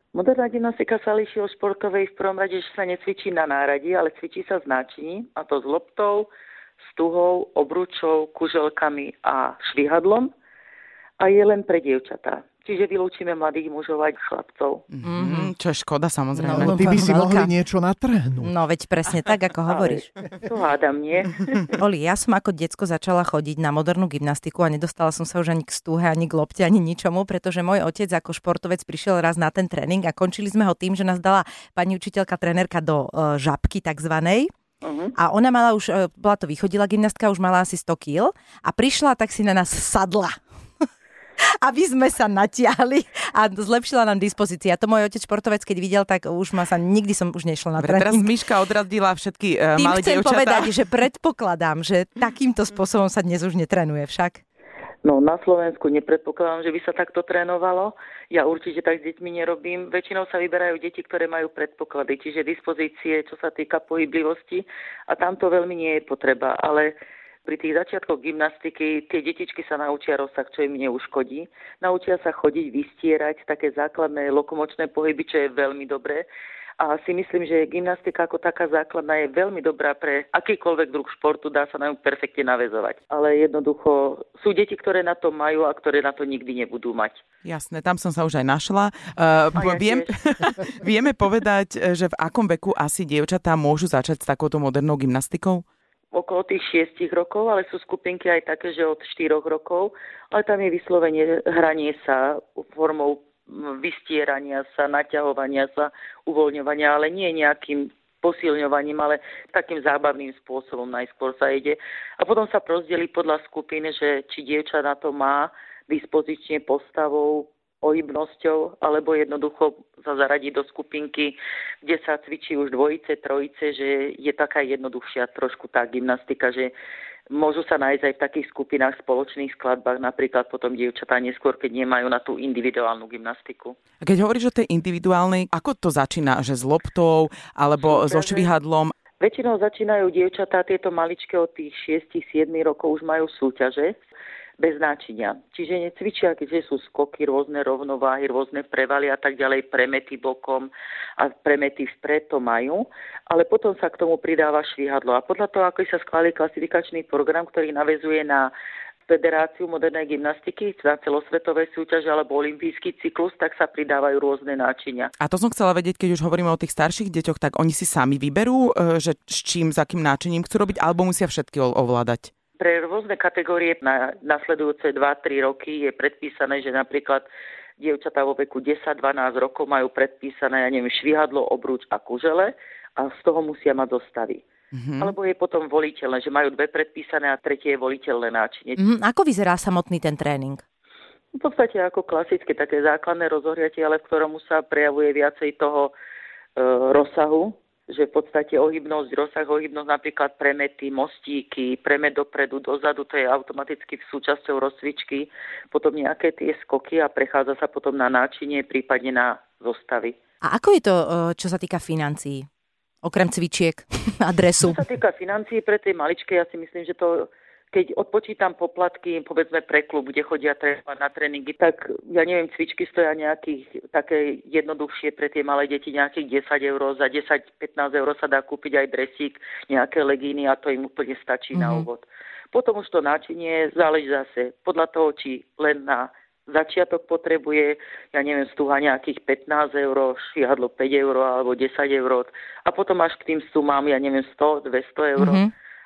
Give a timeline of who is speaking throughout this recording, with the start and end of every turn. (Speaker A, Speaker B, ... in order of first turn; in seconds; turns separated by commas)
Speaker A: 0.1-6.3, Speaker A: 6.8-10.3, Speaker A: 11.2-14.9, Speaker B: 14.9-17.0, Speaker C: 15.0-15.5, Speaker C: 16.4-17.5, Speaker D: 16.5-18.5, Speaker C: 18.4-20.1, Speaker A: 19.7-21.7, Speaker C: 21.8-34.5, Speaker A: 34.8-35.1, Speaker C: 35.2-40.4, Speaker C: 41.4-48.3, Speaker B: 47.8-50.7, Speaker C: 49.8-54.4, Speaker A: 55.0-76.3, Speaker A: 76.8-87.2, Speaker B: 87.4-95.7, Speaker A: 89.6-90.2, Speaker A: 96.1-126.7, Speaker A: 127.3-133.8, Speaker B: 134.0-138.9, Speaker A: 137.8-138.5, Speaker A: 139.2-144.0, Speaker A: 144.6-158.5, Speaker A: 159.1-165.1, Speaker B: 165.2-172.3, Speaker A: 172.6-177.3, Speaker A: 177.8-184.4, Speaker B: 184.7-185.1, Speaker A: 185.0-188.8, Speaker C: 188.8-190.6, Speaker A: 191.3-195.9, Speaker A: 196.6-210.2, Speaker C: 210.4-212.5, Speaker C: 213.0-214.8, Speaker A: 214.6-245.4, Speaker C: 231.6-231.8, Speaker C: 245.2-245.5